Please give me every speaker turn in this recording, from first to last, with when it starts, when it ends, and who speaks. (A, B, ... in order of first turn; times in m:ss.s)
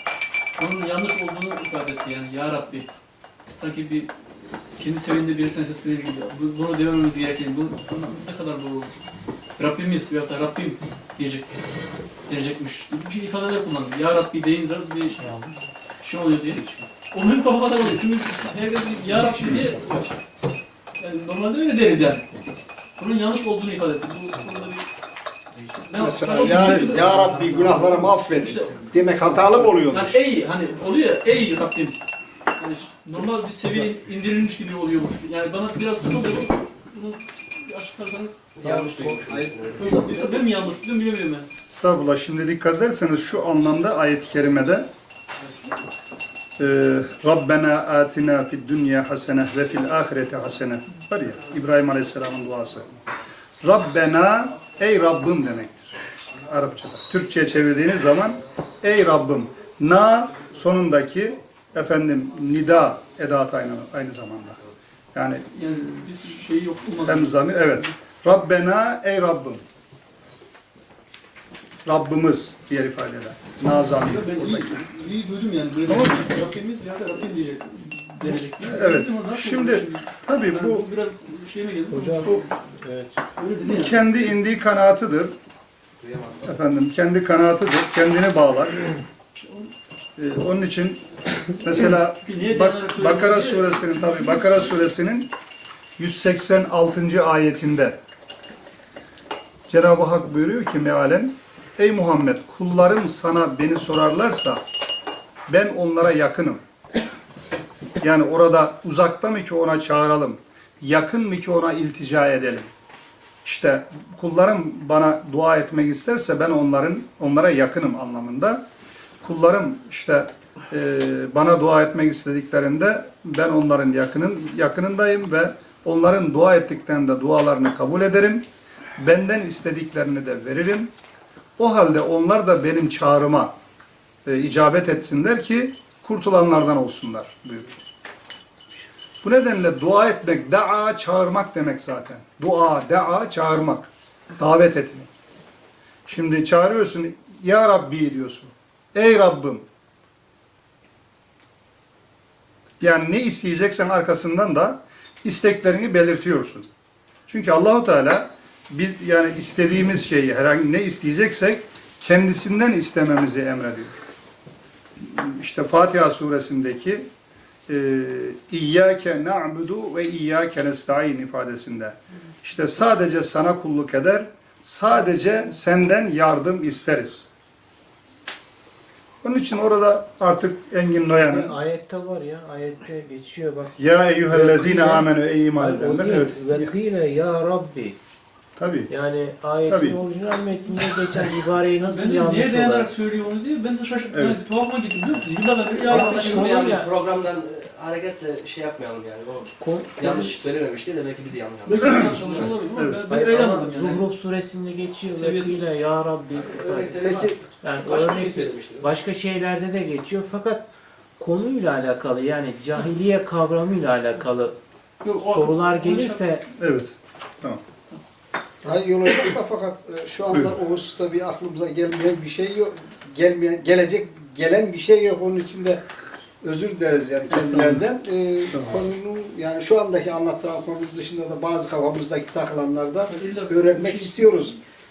0:00.6-0:02.9 A
0:03.5-0:04.1 A
0:04.8-0:08.9 A
0:09.6-0:11.5 A
0:12.3-0:15.3 A
0:15.2-0:15.5 B
0:16.0-0:20.2 A
0:21.0-0:22.3 A
0:23.0-0:24.9 A
0:25.8-0:27.3 A
0:26.0-0:30.2 C
0:27.2-0:27.5 D
0:28.2-0:28.8 A
0:29.5-0:32.0 A
0:32.6-0:38.8 A
0:38.6-0:40.1 D
0:38.9-0:39.2 B
0:39.3-0:40.4 E
0:39.8-0:41.5 A
0:41.7-0:44.9 F
0:45.4-0:45.7 A
0:46.6-0:52.9 F
0:53.6-1:04.6 F
1:05.1-1:05.4 F
1:05.6-1:07.9 A
1:07.0-1:09.6 F
1:11.8-1:14.9 F
1:14.0-1:17.8 E
1:15.9-1:16.4 F
1:17.7-1:22.6 A
1:18.6-1:20.9 F
1:21.9-1:23.2 B
1:23.3-1:24.1 A
1:23.6-1:25.4 F
1:26.0-1:26.4 D
1:26.4-1:29.0 F
1:29.4-1:29.7 A
1:30.2-1:35.3 F
1:32.2-1:34.6 A
1:36.0-1:38.0 F
1:39.7-1:44.6 F
1:45.5-1:46.6 F
1:48.0-1:52.7 F
1:53.4-1:58.6 F
1:59.2-2:08.4 F
2:09.0-2:10.9 F
2:11.6-2:13.5 F
2:14.2-2:17.8 F
2:19.2-2:25.1 F
2:26.1-2:29.6 F
2:32.8-2:36.7 F
2:37.3-2:44.0 F
2:45.0-2:47.1 F
2:47.7-2:57.2 F
2:59.2-3:01.6 F
3:01.0-3:05.1 B
3:03.8-3:06.7 F
3:05.6-3:08.0 B
3:08.6-3:08.9 F
3:08.9-3:12.9 B
3:09.7-3:10.0 F
3:11.8-3:16.6 A
3:14.1-3:14.4 F
3:15.9-3:16.9 B
3:15.9-3:22.5 D
3:19.6-3:20.4 B
3:21.7-3:24.0 A
3:23.1-3:27.0 B
3:25.0-3:25.6 A
3:26.3-3:28.9 D
3:27.0-3:27.4 C
3:27.6-3:30.6 B
3:31.2-3:34.6 B
3:35.0-3:36.2 A
3:35.2-3:36.4 B
3:36.6-3:37.6 F
3:38.6-3:45.8 C
3:46.4-3:54.6 C
3:47.3-3:47.9 F
3:48.4-3:48.8 F
3:53.1-3:54.5 A